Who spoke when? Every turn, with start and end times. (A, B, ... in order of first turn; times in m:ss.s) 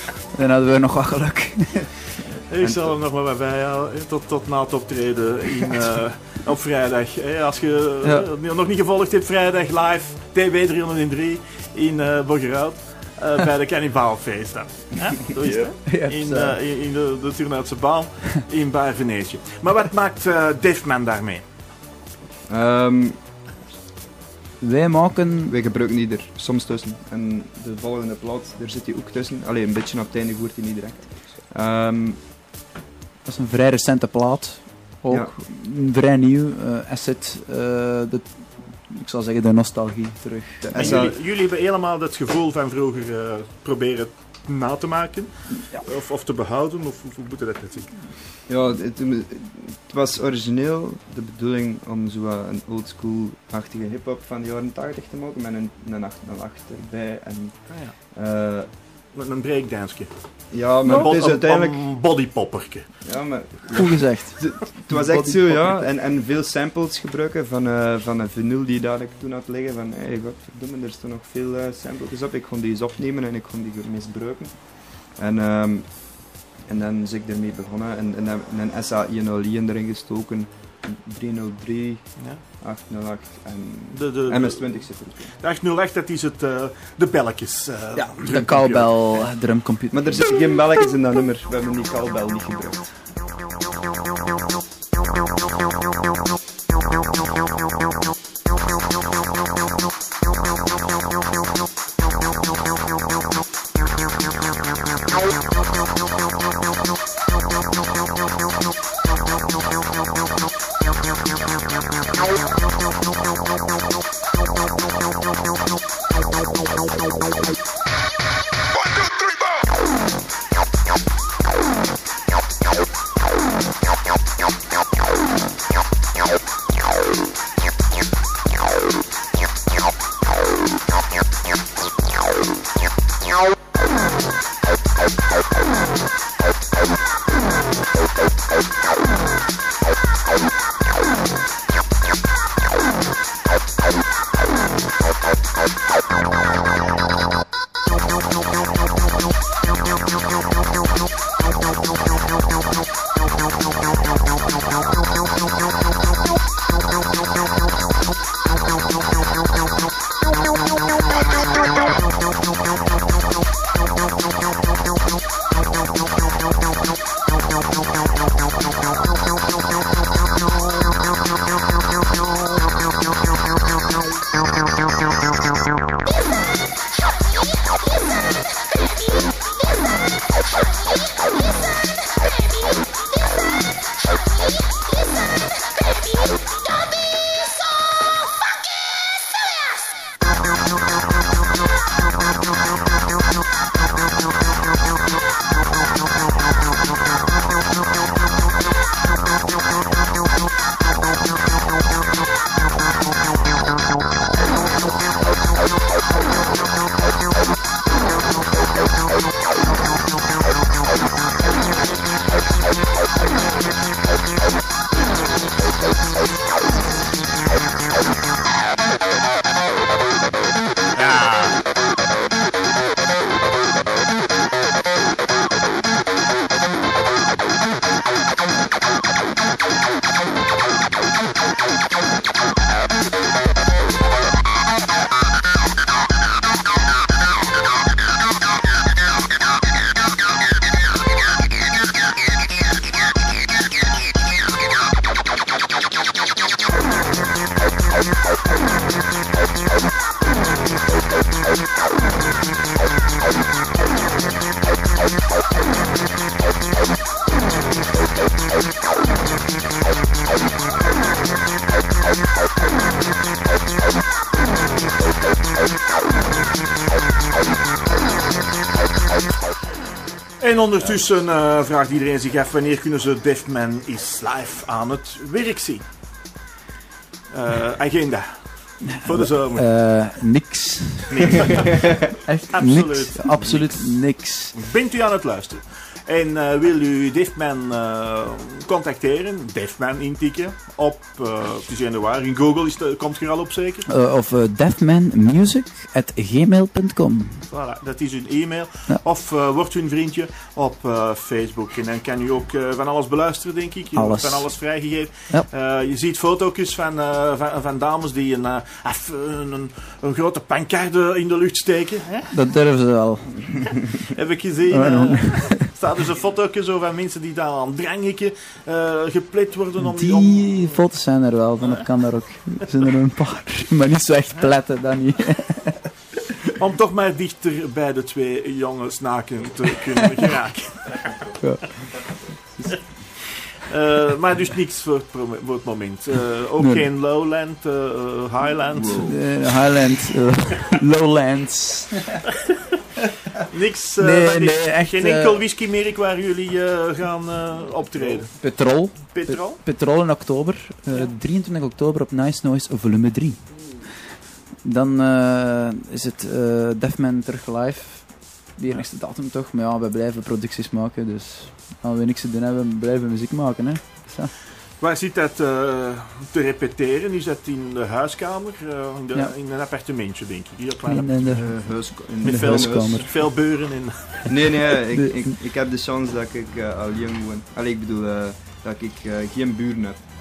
0:00.3-0:02.1 A
0:02.5-0:21.4 B
0:02.6-0:03.0 C
0:08.0-0:08.3 A
0:15.4-0:15.7 C
0:15.9-0:16.6 A
0:22.5-0:23.4 C
0:24.6-0:25.6 A
0:25.5-0:32.2 C
0:33.2-0:41.1 A
0:40.6-0:41.2 C
0:40.7-0:48.0 B
0:48.5-0:58.7 C
0:57.7-0:58.0 B
0:59.1-1:02.9 B
1:00.5-1:01.9 C
1:00.9-1:01.1 A
1:03.0-1:25.4 C
1:03.7-1:05.8 A
1:22.2-1:22.4 B
1:23.9-1:29.3 B
1:28.0-1:30.3 A
1:29.9-1:33.0 C
3:41.0-3:41.6 B
4:30.4-4:35.9 B
4:37.3-4:39.7 B
4:39.1-4:41.2 A
4:41.1-4:41.8 B
4:42.2-4:44.6 A
4:42.5-4:53.9 B
4:53.9-4:57.5 A
4:57.5-5:12.3 B
5:04.0-5:05.5 A
5:12.3-5:13.8 A
5:14.1-5:20.8 B
5:14.7-5:15.8 A
5:19.8-5:26.0 A
5:26.6-5:31.2 B
5:31.4-5:32.0 A
5:33.6-5:39.4 B
5:36.6-5:36.9 A
5:38.7-5:39.2 C
5:39.0-5:42.3 A
5:43.5-5:49.6 B
5:44.0-5:45.4 A
5:48.4-5:53.8 A
5:54.6-6:04.4 A
6:04.8-6:14.4 B
6:10.9-6:13.3 A
6:11.3-6:13.1 C
6:14.3-6:20.0 C
6:14.9-6:15.4 A